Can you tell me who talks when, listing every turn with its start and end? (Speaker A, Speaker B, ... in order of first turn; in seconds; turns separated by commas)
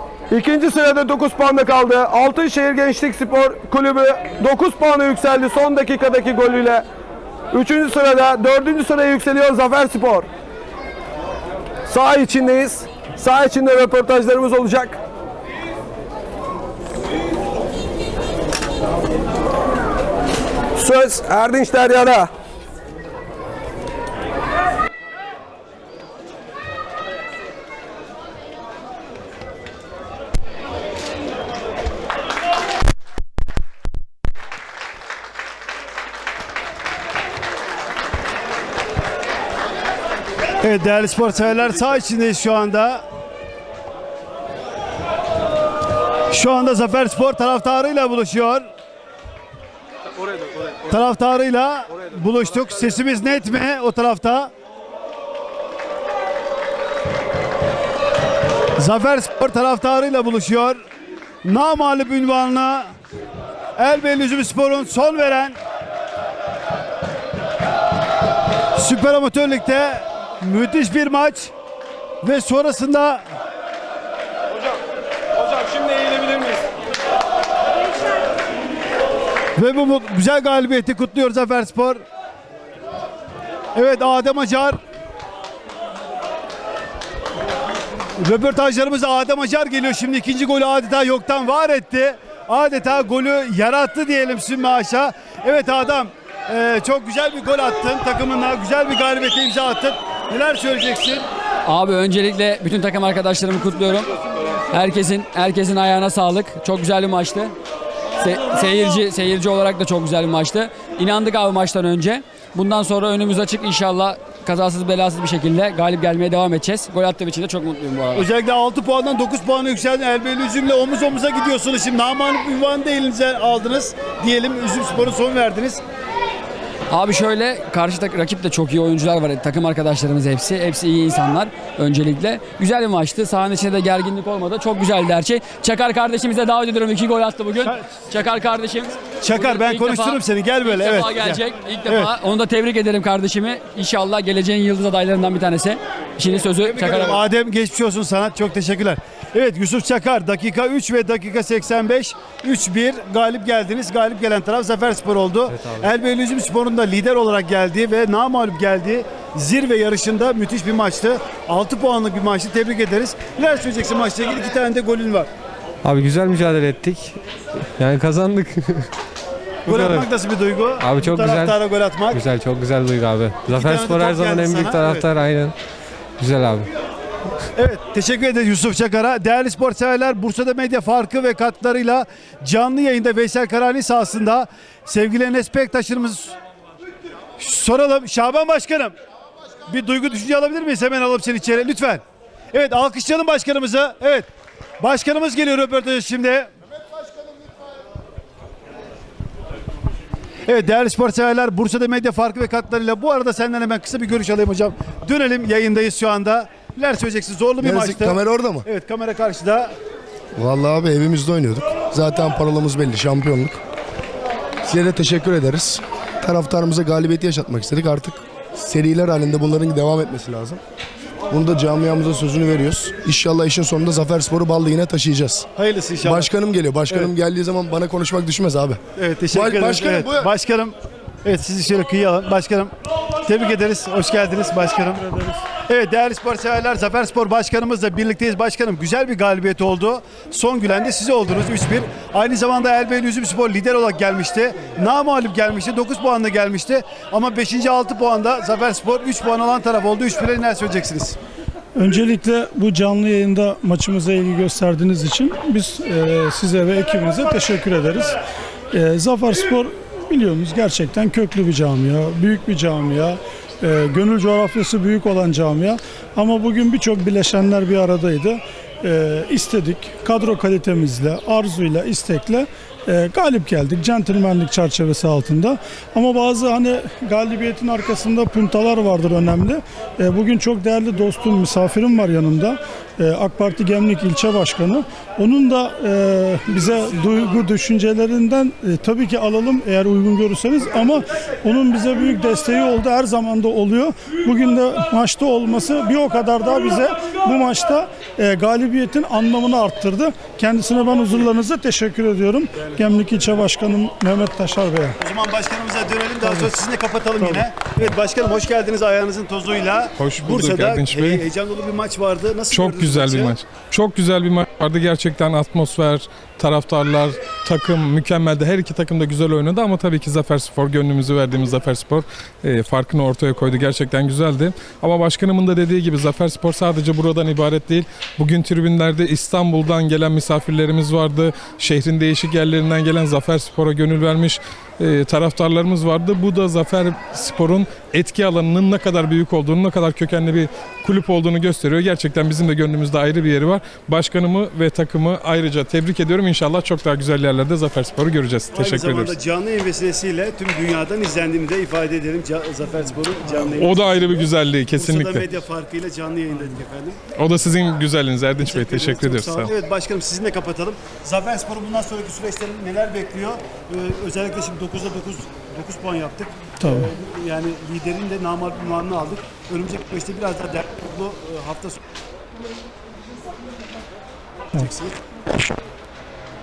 Speaker A: 0.3-6.8, Speaker A: 7.5-10.3, Speaker A: 11.9-15.0, Speaker A: 20.8-22.3, Speaker B: 40.6-43.0, Speaker B: 46.3-48.7, Speaker B: 50.9-54.5, Speaker B: 58.8-60.8, Speaker B: 61.4-62.9, Speaker B: 63.8-65.6, Speaker B: 68.8-71.5, Speaker B: 72.2-73.2, Speaker B: 79.5-82.0, Speaker B: 83.7-84.8, Speaker B: 88.2-101.3, Speaker C: 101.7-104.1, Speaker C: 104.7-107.5, Speaker C: 108.2-118.3, Speaker B: 118.1-125.8, Speaker C: 126.9-147.2, Speaker B: 139.2-142.1, Speaker B: 146.7-165.3, Speaker D: 165.8-167.2, Speaker D: 167.8-168.9, Speaker D: 169.7-170.1, Speaker B: 169.7-172.3, Speaker D: 170.8-171.6, Speaker D: 172.1-175.5, Speaker B: 173.4-175.2, Speaker D: 176.2-176.7, Speaker B: 177.5-186.3, Speaker B: 187.4-188.9, Speaker B: 189.7-194.3, Speaker B: 194.8-196.5, Speaker B: 200.4-209.7, Speaker E: 207.6-208.7, Speaker E: 210.3-213.6, Speaker E: 214.6-220.6, Speaker E: 221.3-225.5, Speaker B: 225.5-226.3, Speaker E: 226.0-228.8, Speaker B: 228.9-232.7, Speaker E: 229.3-230.3, Speaker B: 233.2-251.2, Speaker F: 251.7-258.2, Speaker F: 258.7-305.0, Speaker B: 305.0-313.4, Speaker F: 306.2-306.5, Speaker G: 310.0-311.2, Speaker G: 312.5-349.1, Speaker B: 348.5-357.0, Speaker G: 353.5-355.2, Speaker G: 357.2-359.5, Speaker B: 358.4-371.8, Speaker F: 366.6-366.9, Speaker B: 374.5-375.0